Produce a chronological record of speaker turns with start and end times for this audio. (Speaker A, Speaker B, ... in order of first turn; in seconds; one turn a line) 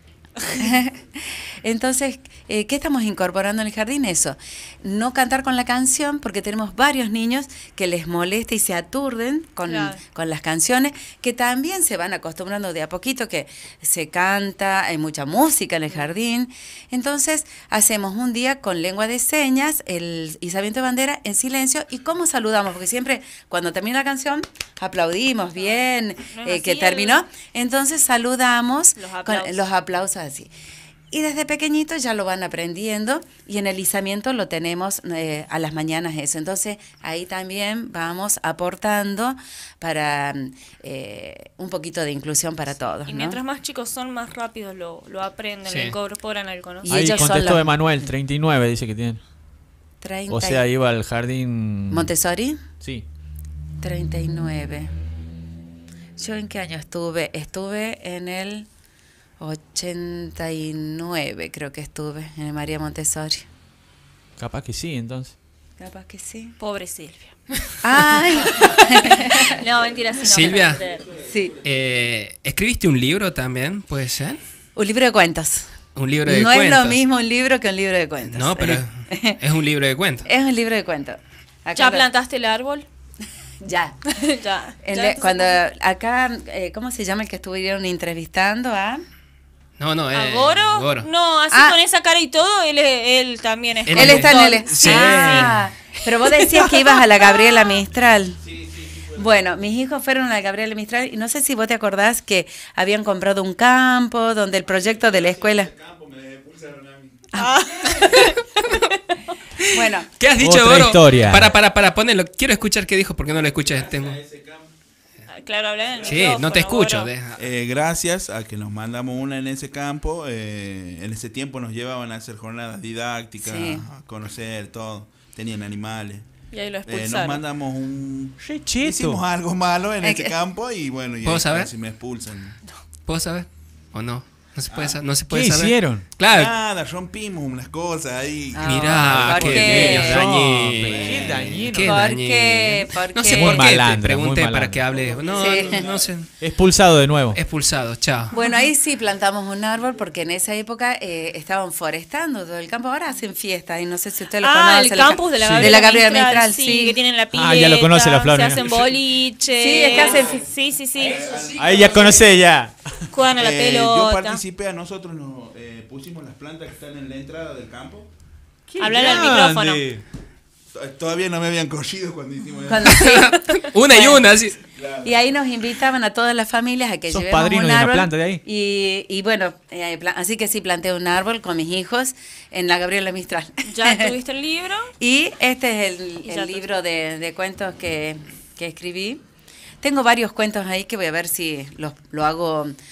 Speaker A: 0.4-0.7
Speaker B: 0.5-30.5
Speaker A: 9.6-10.0
Speaker A: 26.3-27.2
Speaker A: 29.0-29.6
Speaker B: 31.1-43.4
Speaker A: 43.0-46.9
Speaker C: 45.7-46.0
Speaker B: 46.8-47.7
Speaker D: 46.9-49.2
Speaker B: 50.0-50.6
Speaker D: 50.3-52.1
Speaker B: 51.9-52.6
Speaker B: 53.8-54.9
Speaker B: 56.2-58.7
Speaker B: 59.4-63.5
Speaker D: 64.4-65.3
Speaker B: 65.8-66.5
Speaker A: 66.6-67.8
Speaker B: 67.8-69.6
Speaker A: 68.4-71.2
Speaker C: 70.2-70.8
Speaker B: 71.2-71.5
Speaker C: 71.6-74.4
Speaker B: 74.8-75.7
Speaker C: 75.9-77.0
Speaker B: 76.2-79.4
Speaker C: 78.2-80.3
Speaker B: 80.2-82.1
Speaker A: 81.8-82.8
Speaker B: 83.6-84.0
Speaker A: 84.1-85.6
Speaker B: 84.8-89.0
Speaker C: 89.8-91.1
Speaker A: 90.1-97.8
Speaker B: 91.5-91.8
Speaker C: 93.9-95.6
Speaker B: 93.9-98.4
Speaker E: 98.4-99.3
Speaker B: 99.2-105.7
Speaker E: 104.8-107.3
Speaker A: 107.3-109.3
Speaker B: 109.7-110.1
Speaker C: 110.2-114.2
Speaker D: 110.4-111.5
Speaker E: 113.6-114.7
Speaker A: 115.3-117.1
Speaker E: 116.0-116.4
Speaker C: 116.0-117.4
Speaker E: 117.3-132.6
Speaker B: 123.4-123.8
Speaker A: 126.5-127.4
Speaker D: 128.4-129.2
Speaker B: 130.0-130.3
Speaker C: 131.2-131.7
Speaker C: 133.1-136.5
Speaker E: 134.7-135.0
Speaker D: 135.3-136.1
Speaker E: 136.2-141.8
Speaker B: 138.5-140.2
Speaker C: 138.6-146.3
Speaker D: 139.2-142.1
Speaker B: 141.8-143.8
Speaker D: 143.3-145.0
Speaker E: 145.0-146.1
Speaker B: 145.3-145.8
Speaker D: 146.3-147.4
Speaker C: 147.3-148.4
Speaker B: 148.3-157.0
Speaker A: 154.4-161.2
Speaker D: 155.4-155.7
Speaker D: 157.3-158.9
Speaker B: 159.6-160.5
Speaker E: 161.0-162.4
Speaker D: 161.1-163.1
Speaker C: 161.7-162.1
Speaker A: 163.1-164.4
Speaker E: 163.3-168.1
Speaker D: 168.7-170.0
Speaker A: 168.8-169.8
Speaker E: 170.7-173.1
Speaker B: 172.7-174.2
Speaker C: 172.8-174.6
Speaker E: 174.7-175.2
Speaker B: 175.0-184.1
Speaker D: 177.1-178.4
Speaker A: 183.7-184.9
Speaker B: 185.0-189.2
Speaker A: 186.3-186.7
Speaker B: 189.8-192.7